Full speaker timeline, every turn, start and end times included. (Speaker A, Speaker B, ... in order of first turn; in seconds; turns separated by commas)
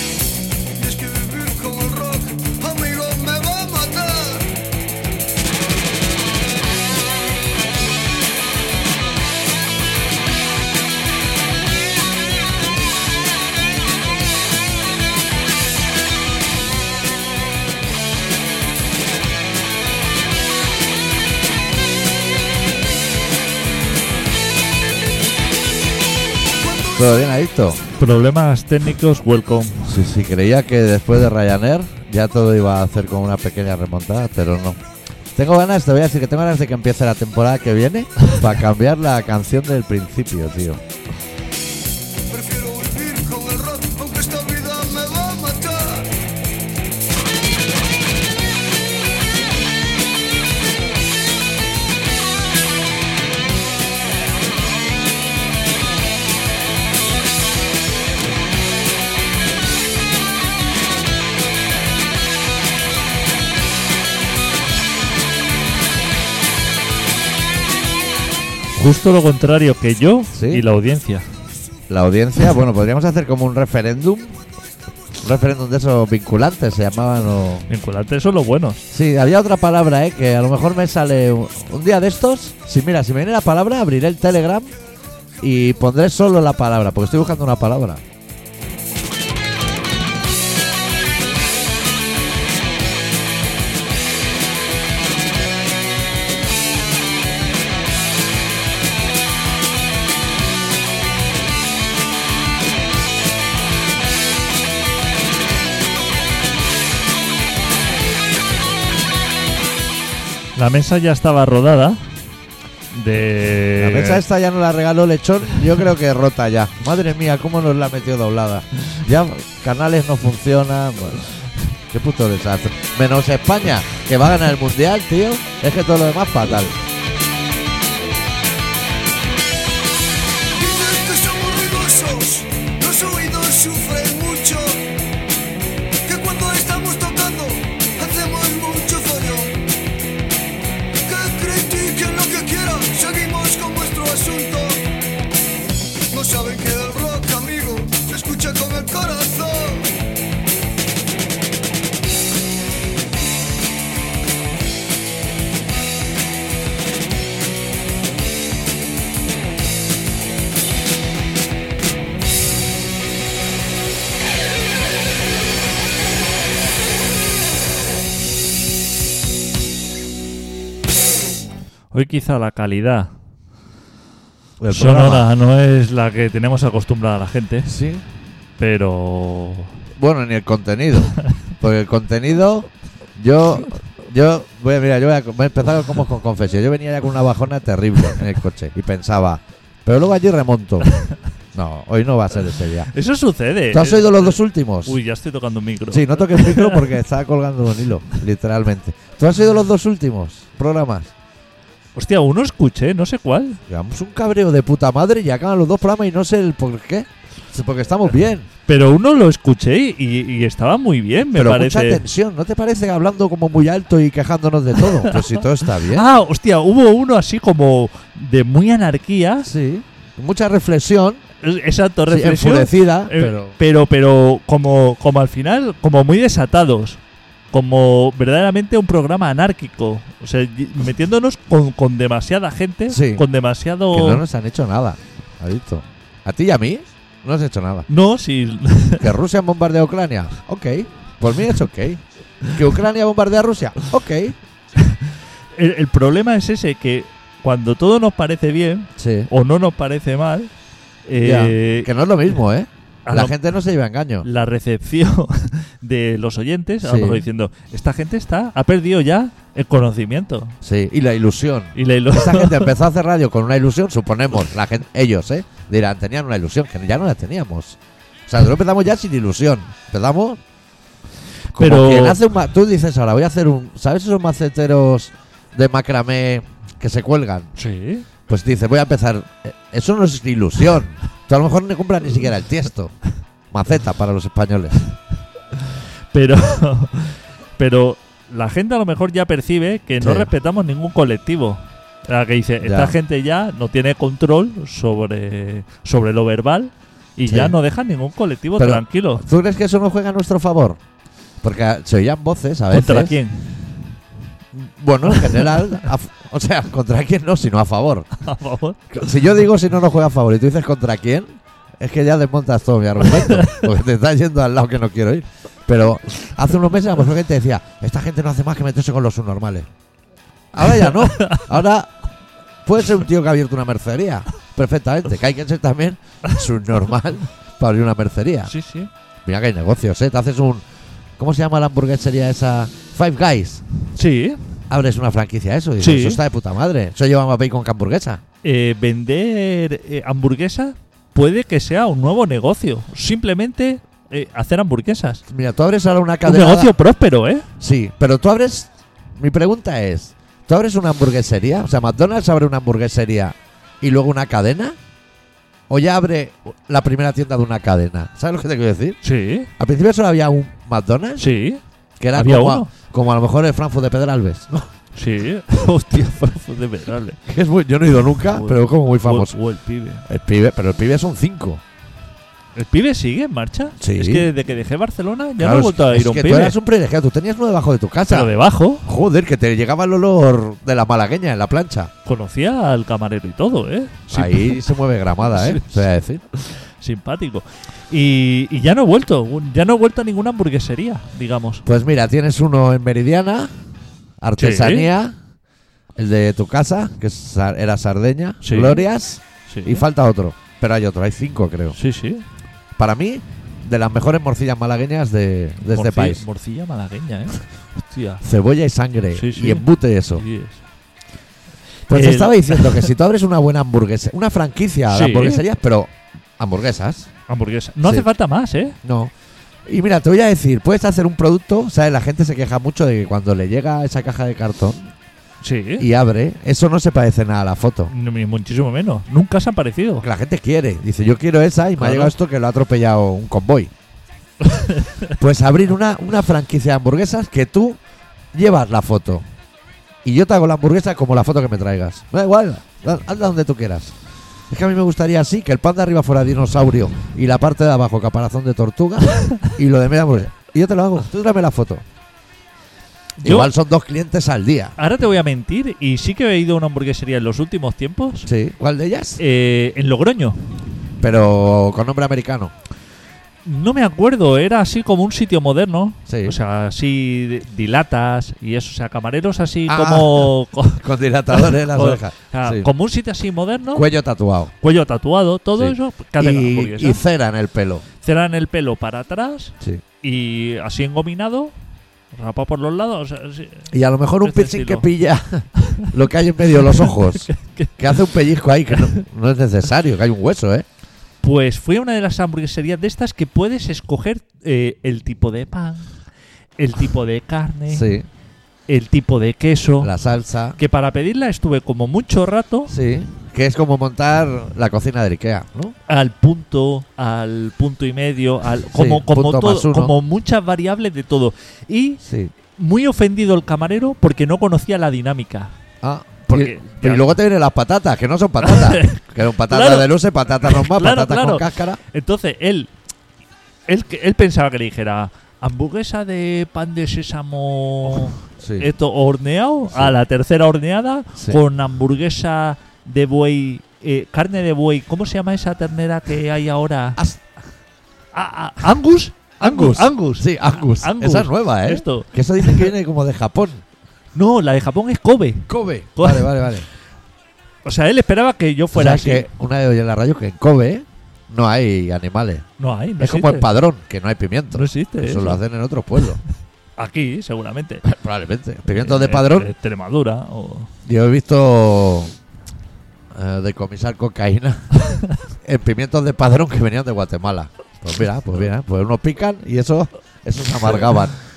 Speaker A: 0.8-4.6, Speaker A: 26.6-27.0, Speaker B: 26.9-27.8, Speaker C: 28.0-30.0, Speaker B: 29.9-34.8, Speaker B: 35.4-40.8, Speaker A: 42.3-46.1, Speaker C: 68.8-71.3, Speaker B: 70.3-70.6, Speaker B: 71.9-74.4, Speaker B: 75.2-77.7, Speaker C: 77.7-78.8, Speaker B: 78.9-84.8, Speaker B: 85.4-88.0, Speaker C: 110.6-112.0, Speaker C: 112.9-114.2, Speaker B: 113.8-121.3, Speaker B: 121.9-126.8, Speaker A: 130.6-134.9, Speaker A: 136.1-139.7, Speaker A: 141.0-144.9, Speaker A: 146.1-149.9, Speaker C: 171.9-173.1, Speaker B: 174.6-175.3, Speaker C: 174.7-177.7, Speaker B: 177.7-178.0, Speaker C: 178.6-179.8, Speaker B: 180.0-190.9, Speaker B: 191.6-192.9, Speaker C: 192.9-196.9, Speaker B: 193.7-195.0, Speaker B: 195.9-201.1, Speaker C: 201.9-203.6, Speaker B: 203.7-208.5, Speaker C: 208.7-212.0, Speaker B: 211.3-216.1, Speaker C: 214.8-219.5, Speaker B: 219.4-221.2, Speaker C: 221.4-227.0, Speaker B: 222.1-223.6, Speaker C: 227.5-234.2, Speaker B: 232.9-233.2, Speaker B: 233.9-237.9, Speaker C: 237.9-239.1, Speaker B: 239.0-244.4, Speaker C: 244.8-245.1, Speaker C: 245.6-250.5, Speaker B: 249.0-249.3, Speaker C: 251.1-251.9, Speaker B: 251.2-254.3, Speaker C: 253.1-253.4, Speaker C: 254.2-260.6, Speaker B: 256.8-257.3, Speaker B: 260.6-270.4, Speaker C: 261.8-262.8, Speaker C: 271.5-272.2, Speaker B: 271.5-277.6, Speaker C: 277.6-278.1, Speaker B: 278.3-283.0, Speaker B: 283.5-284.8, Speaker C: 286.1-299.2, Speaker B: 290.0-290.3, Speaker B: 292.6-292.9, Speaker B: 297.3-297.6, Speaker B: 298.6-300.8, Speaker B: 301.4-303.2, Speaker C: 302.7-303.5, Speaker B: 304.5-308.1, Speaker C: 305.1-305.5, Speaker C: 308.2-308.9, Speaker B: 308.9-319.7, Speaker C: 313.1-313.6, Speaker B: 320.5-321.9, Speaker C: 320.8-321.4, Speaker B: 322.6-328.5, Speaker C: 328.5-328.9, Speaker B: 329.2-330.6, Speaker B: 331.2-333.6, Speaker C: 334.0-334.4, Speaker B: 334.7-338.2, Speaker C: 335.8-336.2, Speaker C: 338.4-345.2, Speaker B: 345.3-346.7, Speaker C: 346.2-347.5, Speaker B: 347.6-354.8, Speaker B: 355.7-359.0, Speaker C: 359.0-359.5, Speaker B: 359.6-361.3, Speaker C: 361.2-361.6, Speaker B: 362.0-364.7, Speaker C: 362.1-362.7, Speaker C: 364.9-367.2, Speaker B: 367.3-369.4, Speaker C: 368.2-370.1, Speaker B: 370.1-371.6, Speaker C: 372.6-376.6, Speaker B: 373.8-374.3, Speaker B: 375.4-378.3, Speaker C: 378.1-378.9, Speaker B: 378.9-381.9, Speaker C: 382.1-384.6, Speaker B: 384.1-386.2, Speaker C: 385.3-385.8, Speaker C: 386.4-391.6, Speaker B: 391.6-393.5, Speaker B: 394.2-395.2, Speaker C: 394.4-394.9, Speaker B: 396.0-401.8, Speaker C: 398.4-398.8, Speaker C: 399.5-399.8, Speaker C: 401.7-402.2, Speaker B: 402.8-406.2, Speaker C: 405.7-408.2, Speaker B: 408.2-410.2, Speaker C: 409.1-410.6, Speaker C: 411.9-412.9, Speaker B: 411.9-417.1, Speaker C: 414.9-415.4, Speaker C: 417.3-418.8, Speaker B: 418.8-419.1, Speaker B: 419.7-424.9, Speaker C: 425.4-425.9, Speaker B: 425.8-427.9, Speaker C: 427.9-430.1, Speaker B: 430.0-433.7, Speaker C: 431.8-432.1, Speaker C: 434.4-435.1, Speaker B: 435.2-437.8, Speaker B: 438.3-439.2, Speaker B: 440.0-443.9, Speaker B: 444.5-451.9, Speaker C: 449.1-449.5, Speaker C: 453.2-453.5, Speaker B: 453.2-454.8, Speaker C: 454.8-458.3, Speaker B: 458.3-459.2, Speaker C: 459.2-460.5, Speaker B: 461.0-462.5, Speaker C: 463.4-473.9, Speaker B: 466.1-466.4, Speaker B: 469.7-472.7, Speaker B: 473.7-474.5, Speaker C: 474.6-477.0, Speaker B: 475.6-477.9, Speaker C: 478.0-481.5, Speaker C: 482.1-483.7, Speaker B: 483.7-490.7, Speaker C: 484.2-484.9, Speaker C: 485.6-485.9, Speaker C: 486.6-487.8, Speaker C: 491.2-495.9, Speaker C: 496.6-497.9, Speaker B: 497.7-498.1, Speaker C: 498.7-499.9, Speaker B: 499.8-500.6, Speaker C: 500.6-502.8, Speaker B: 502.7-505.8, Speaker C: 505.9-512.0, Speaker B: 508.7-509.9, Speaker B: 512.0-512.3, Speaker C: 512.6-515.5, Speaker B: 515.8-521.8, Speaker C: 516.3-517.1, Speaker C: 518.4-522.7, Speaker C: 523.7-537.0, Speaker B: 528.4-528.7, Speaker B: 537.0-537.2, Speaker C: 538.1-542.7, Speaker B: 539.4-543.6, Speaker C: 544.1-546.3, Speaker B: 545.5-546.7, Speaker C: 547.6-549.3, Speaker B: 548.7-552.5, Speaker C: 552.6-553.5, Speaker B: 553.0-556.2, Speaker C: 554.5-555.4, Speaker C: 556.8-557.9, Speaker B: 557.9-559.5, Speaker C: 558.7-560.7, Speaker B: 560.9-562.1, Speaker B: 563.1-564.7, Speaker B: 565.4-571.2